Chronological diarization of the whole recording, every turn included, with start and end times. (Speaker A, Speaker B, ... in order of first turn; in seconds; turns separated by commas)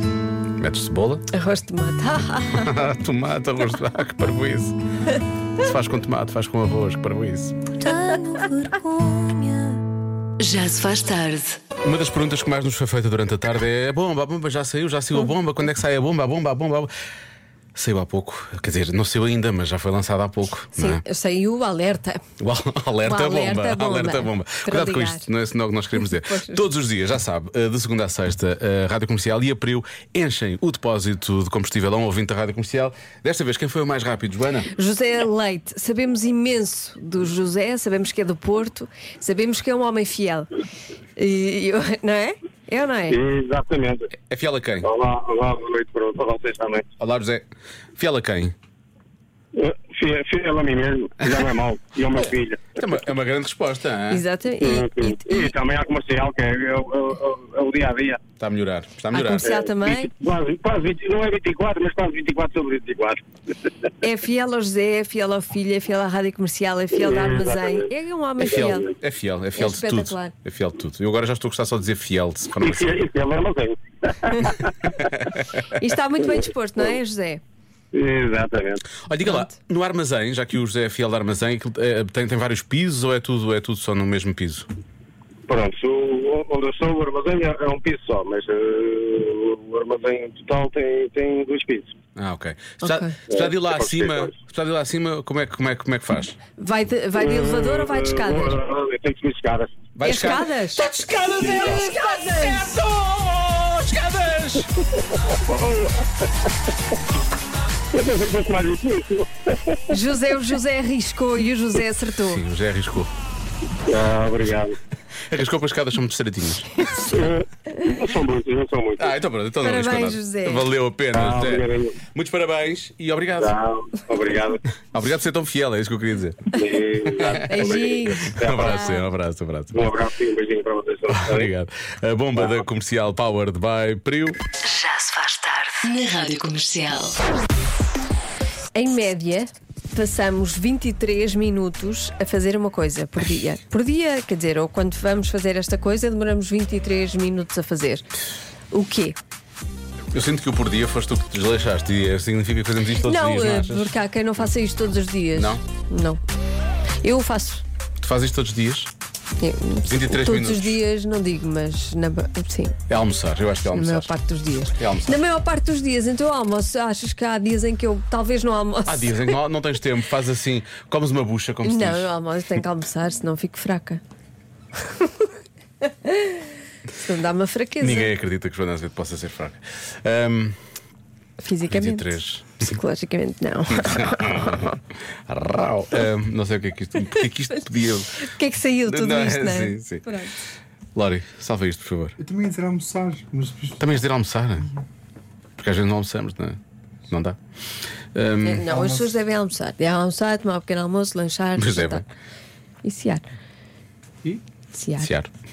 Speaker A: 0.6-1.2, Speaker B: 1.3-2.7, Speaker A: 2.5-4.8, Speaker A: 5.6-7.6, Speaker C: 7.8-8.9, Speaker B: 8.4-9.3, Speaker C: 10.4-11.6, Speaker A: 11.8-16.9, Speaker A: 17.7-21.0, Speaker B: 20.8-22.2, Speaker A: 22.4-34.7, Speaker B: 23.0-25.3, Speaker B: 25.9-26.6, Speaker B: 34.7-40.5, Speaker B: 41.2-43.2, Speaker D: 43.1-44.1, Speaker A: 44.3-44.9, Speaker D: 44.8-46.9, Speaker A: 47.0-48.5, Speaker D: 49.5-52.6, Speaker A: 52.8-54.2, Speaker B: 54.1-55.5, Speaker D: 54.6-58.2, Speaker A: 58.4-59.5, Speaker B: 59.1-60.1, Speaker D: 59.5-63.2, Speaker B: 64.0-68.9, Speaker D: 66.9-67.8, Speaker A: 68.4-73.0, Speaker D: 68.5-68.7, Speaker B: 69.5-70.3, Speaker D: 72.6-74.5, Speaker A: 75.0-75.3, Speaker B: 75.7-77.4, Speaker D: 77.9-78.8, Speaker A: 79.0-84.7, Speaker B: 79.2-79.5, Speaker D: 85.5-91.9, Speaker A: 92.2-96.3, Speaker B: 92.8-93.1, Speaker D: 93.3-94.3, Speaker B: 96.6-98.6, Speaker D: 97.2-99.8, Speaker A: 99.9-104.7, Speaker B: 100.0-100.8, Speaker D: 101.4-101.8, Speaker B: 101.5-102.5, Speaker D: 105.5-105.9, Speaker D: 107.9-109.3, Speaker B: 109.9-112.4, Speaker A: 112.2-113.1, Speaker D: 113.9-114.8, Speaker A: 115.3-116.9, Speaker D: 117.1-119.2, Speaker A: 119.0-123.5, Speaker B: 119.6-120.7, Speaker D: 121.2-122.0, Speaker D: 123.4-124.6, Speaker A: 124.9-127.7, Speaker D: 126.5-128.7, Speaker B: 127.4-129.0, Speaker A: 128.3-130.0, Speaker D: 129.7-131.5, Speaker A: 131.1-134.4, Speaker D: 132.3-132.6, Speaker C: 134.7-137.2, Speaker B: 138.7-148.1, Speaker B: 148.7-149.2, Speaker A: 150.1-153.9, Speaker B: 153.0-156.2, Speaker A: 155.3-155.6, Speaker B: 157.0-157.6, Speaker A: 158.0-158.9, Speaker B: 159.4-162.7, Speaker A: 159.8-160.8, Speaker A: 162.9-164.1, Speaker B: 163.7-169.2, Speaker A: 164.8-165.2, Speaker A: 168.8-172.1, Speaker B: 171.6-174.0, Speaker B: 176.0-176.4, Speaker B: 176.9-178.1, Speaker A: 177.8-180.6, Speaker B: 181.4-184.7, Speaker A: 181.7-182.7, Speaker A: 183.8-184.7, Speaker A: 185.3-188.2, Speaker B: 188.2-190.3, Speaker A: 188.8-190.0, Speaker A: 190.9-192.2, Speaker E: 192.2-193.9, Speaker A: 193.8-194.7, Speaker A: 195.6-197.4, Speaker A: 198.1-198.6, Speaker B: 198.4-202.1, Speaker E: 198.6-199.2, Speaker A: 201.6-202.0, Speaker B: 202.8-203.2, Speaker B: 204.7-205.1, Speaker A: 205.0-205.3